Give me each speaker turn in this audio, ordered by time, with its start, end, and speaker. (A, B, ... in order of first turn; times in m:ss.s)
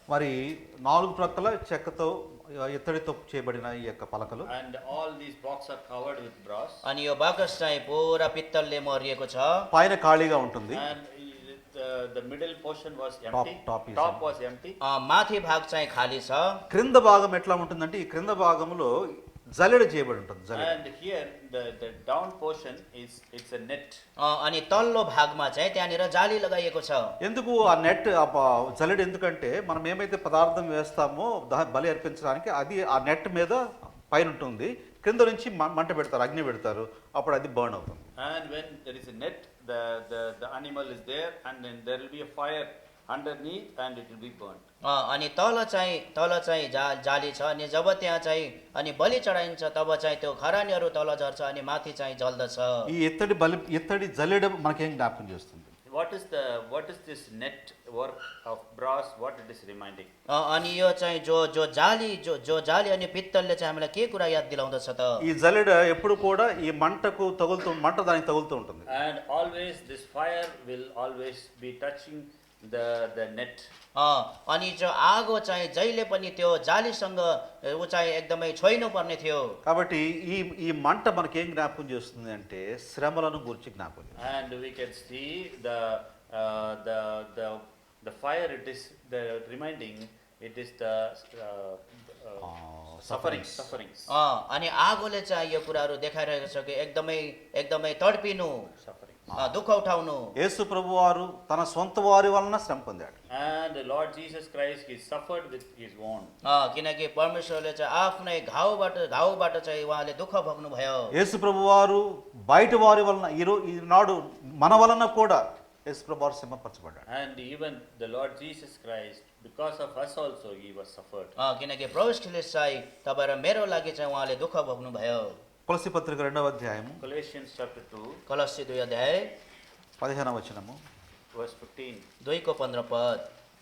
0:00.1-0:04.5 A
0:04.5-0:06.8 B
0:06.8-0:09.7 C
0:09.7-0:10.8 A
0:10.7-0:14.8 B
0:13.3-0:14.2 A
0:14.8-0:16.6 C
0:16.7-0:18.9 A
0:19.6-0:20.8 A
0:20.5-0:24.0 B
0:24.2-0:27.1 C
0:27.2-0:33.6 A
0:34.1-0:38.0 A
0:38.2-0:44.6 B
0:44.8-0:52.9 C
0:52.9-0:55.7 A
0:55.9-1:00.1 B
1:00.3-1:05.2 C
1:05.2-1:08.9 A
1:08.9-1:13.7 B
1:14.0-1:19.5 C
1:19.6-1:24.1 A
1:24.2-1:32.5 B
1:32.4-1:33.7 A
1:33.0-1:34.1 B
1:34.1-1:38.6 C
1:38.8-1:39.3 B
1:39.4-1:40.3 C
1:40.4-1:43.2 A
1:43.3-1:46.3 B
1:46.4-1:51.1 C
1:51.1-1:57.0 A
1:57.1-2:01.3 B
2:01.4-2:05.4 C
2:05.7-2:07.0 A
2:07.0-2:08.2 B
2:08.3-2:09.3 C
2:10.0-2:10.8 A
2:11.3-2:12.0 B
2:12.2-2:13.2 C